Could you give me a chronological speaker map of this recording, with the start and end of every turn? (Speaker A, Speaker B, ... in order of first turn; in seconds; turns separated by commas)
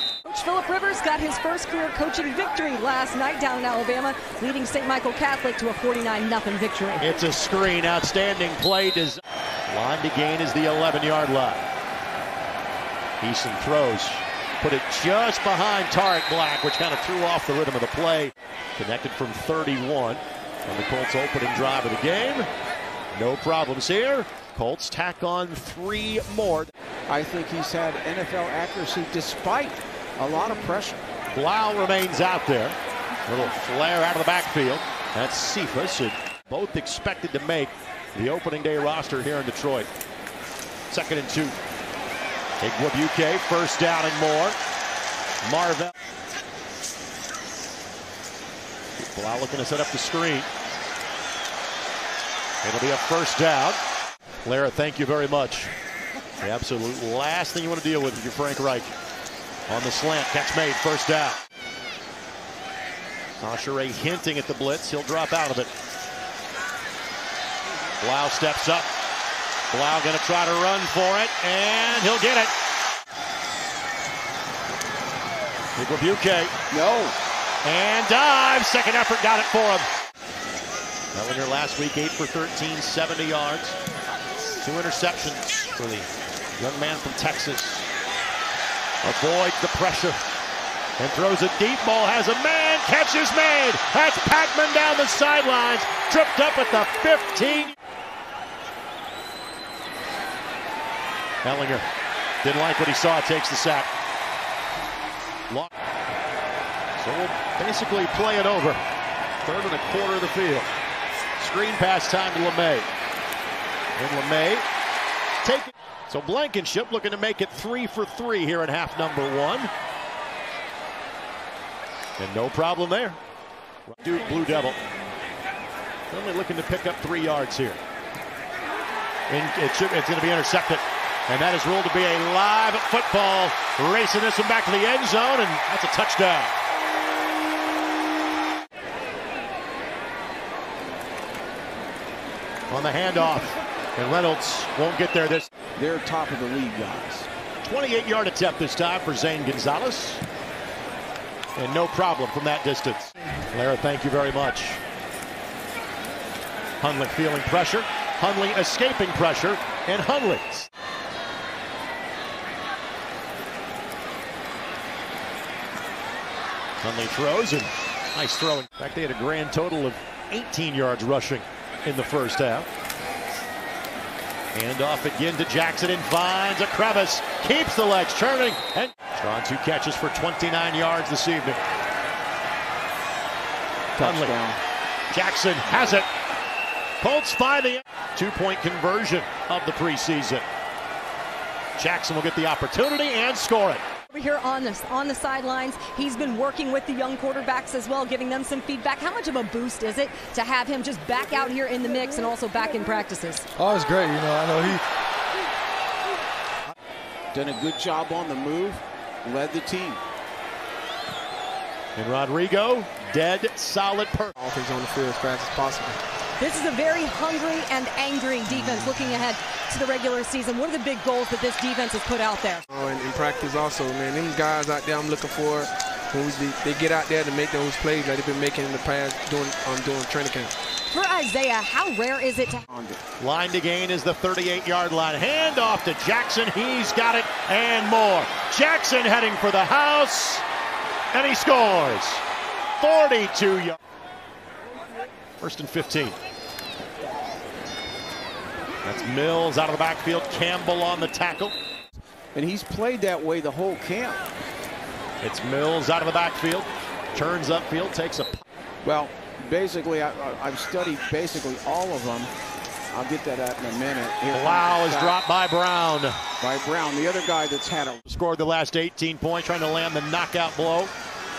Speaker A: 0.2-7.2, Speaker B: 7.0-11.6, Speaker B: 13.2-22.5, Speaker B: 23.1-26.7, Speaker C: 27.1-31.0, Speaker B: 31.3-32.8, Speaker B: 33.3-39.9, Speaker B: 40.9-41.6, Speaker B: 42.6-44.6, Speaker B: 45.4-45.9, Speaker B: 49.0-50.5, Speaker B: 52.6-53.8, Speaker B: 54.4-55.7, Speaker B: 56.4-58.9, Speaker B: 59.7-61.4, Speaker B: 63.4-65.7, Speaker B: 68.0-68.9, Speaker B: 69.7-72.5, Speaker B: 75.8-76.5, Speaker C: 76.7-77.2, Speaker B: 77.6-79.9, Speaker B: 81.1-83.8, Speaker B: 84.6-87.9, Speaker B: 89.0-90.2, Speaker B: 91.0-97.7, Speaker B: 101.4-101.8, Speaker B: 102.4-103.9, Speaker B: 107.0-108.8, Speaker B: 109.4-110.7, Speaker B: 111.4-112.9, Speaker B: 114.0-114.6, Speaker B: 115.4-119.7, Speaker B: 122.2-123.2, Speaker B: 123.8-124.8, Speaker B: 126.1-127.8, Speaker B: 129.3-136.5, Speaker B: 142.7-145.5, Speaker C: 145.8-147.3, Speaker B: 147.6-150.2, Speaker B: 151.6-154.8, Speaker B: 156.8-160.7, Speaker B: 166.8-172.7, Speaker B: 174.5-181.6, Speaker C: 183.9-184.6, Speaker B: 184.0-184.3, Speaker B: 185.1-186.1, Speaker B: 187.0-190.4, Speaker B: 191.8-193.8, Speaker A: 194.1-204.8, Speaker C: 207.3-210.0, Speaker B: 211.9-214.3, Speaker D: 214.4-216.0, Speaker A: 216.4-222.7, Speaker D: 222.7-230.5, Speaker A: 230.9-232.6, Speaker C: 232.7-233.0, Speaker B: 233.2-240.4, Speaker B: 241.1-242.2, Speaker B: 242.8-243.8, Speaker B: 245.4-246.2, Speaker B: 248.8-251.5, Speaker C: 252.3-254.2, Speaker B: 255.2-258.4, Speaker C: 258.8-262.3, Speaker C: 262.9-265.2, Speaker B: 264.3-266.2, Speaker C: 266.4-268.0, Speaker B: 268.1-270.9